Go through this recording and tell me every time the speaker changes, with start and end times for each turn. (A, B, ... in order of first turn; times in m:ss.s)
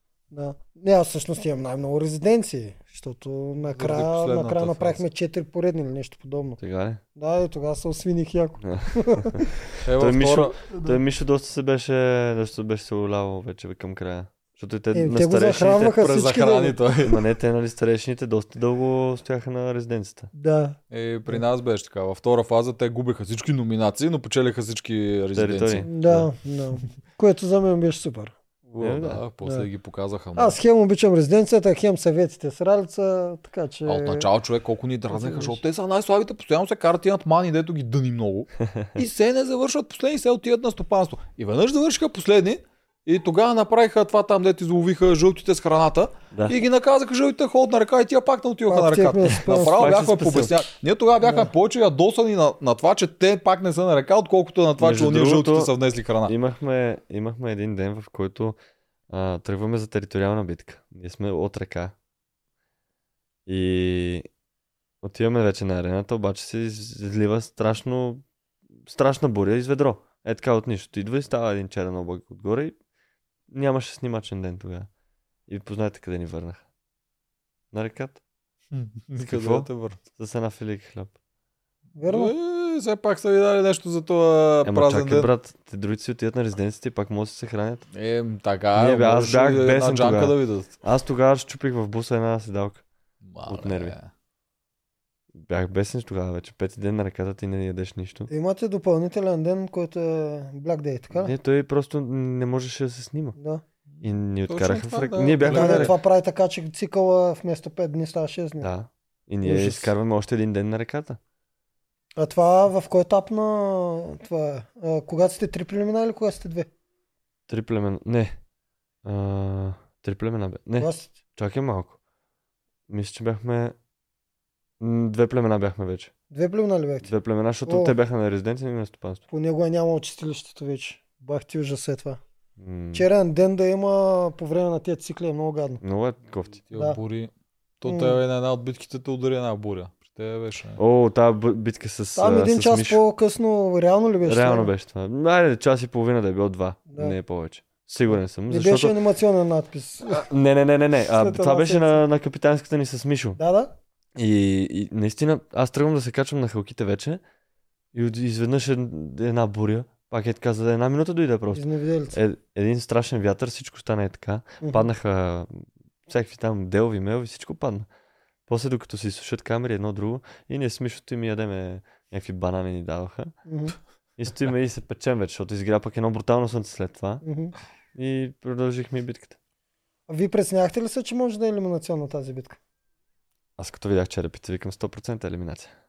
0:00.3-0:06.6 A
0:03.6-0:05.0 B
0:06.6-0:07.0 C
0:07.2-0:09.5 A
0:08.6-0:16.0 C
0:09.8-0:10.9 B
0:14.9-0:17.0 A
0:15.9-0:17.2 B
0:17.0-0:20.3 C
0:20.3-0:20.8 A
0:20.9-0:26.3 B
0:25.3-0:26.0 C
0:25.8-0:28.3 A
0:28.7-0:30.6 B
0:28.8-0:29.2 C
0:30.4-0:34.3 A
0:33.8-0:56.3 B
0:35.1-0:35.6 A
0:38.7-0:39.0 C
0:48.7-0:50.0 A
0:49.7-0:50.6 C
0:51.2-0:51.5 A
0:54.8-0:55.7 C
0:56.2-0:58.6 C
0:59.1-1:01.9 C
1:03.4-1:04.2 C
1:05.0-1:08.2 C
1:08.8-1:12.8 C
1:13.5-1:14.9 C
1:15.5-1:16.6 C
1:17.7-1:18.2 C
1:18.7-1:20.0 B
1:19.2-1:21.1 C
1:22.0-1:22.3 A
1:22.1-1:25.3 B
1:24.6-1:27.8 C
1:27.9-1:30.7 B
1:28.8-1:32.8 C
1:33.2-1:34.1 B
1:33.5-1:33.9 C
1:35.3-1:38.3 C
1:38.3-1:41.3 A
1:41.1-1:43.4 C
1:43.4-1:43.6 A
1:43.9-1:45.9 B
1:44.0-1:45.9 C
1:45.4-1:48.7 A
1:48.6-1:51.2 C
1:49.4-1:49.9 A
1:52.2-1:56.7 A
1:57.5-1:58.4 C
1:59.0-2:02.0 C
2:00.8-2:01.1 A
2:02.9-2:03.7 C
2:04.8-2:06.1 C
2:06.3-2:07.1 A
2:07.0-2:09.2 C
2:07.6-2:07.9 A
2:09.3-2:12.2 A
2:12.6-2:13.1 C
2:12.9-2:15.8 A
2:15.8-2:16.6 C
2:16.7-2:20.8 B
2:17.8-2:18.2 A
2:20.8-2:23.0 C
2:22.2-2:24.7 A
2:24.2-2:29.0 C
2:26.9-2:27.2 A
2:28.1-2:30.3 A
2:30.1-2:33.4 C
2:31.1-2:32.0 A
2:33.4-2:33.7 A
2:34.2-2:37.2 C
2:37.9-2:47.9 C
2:41.5-2:42.2 A
2:44.6-2:44.9 A
2:48.5-2:53.3 C
2:53.4-2:53.8 A
2:54.2-2:57.2 C
2:57.2-2:57.5 A
2:57.9-2:59.4 C
3:00.1-3:02.6 A
3:03.6-3:05.7 C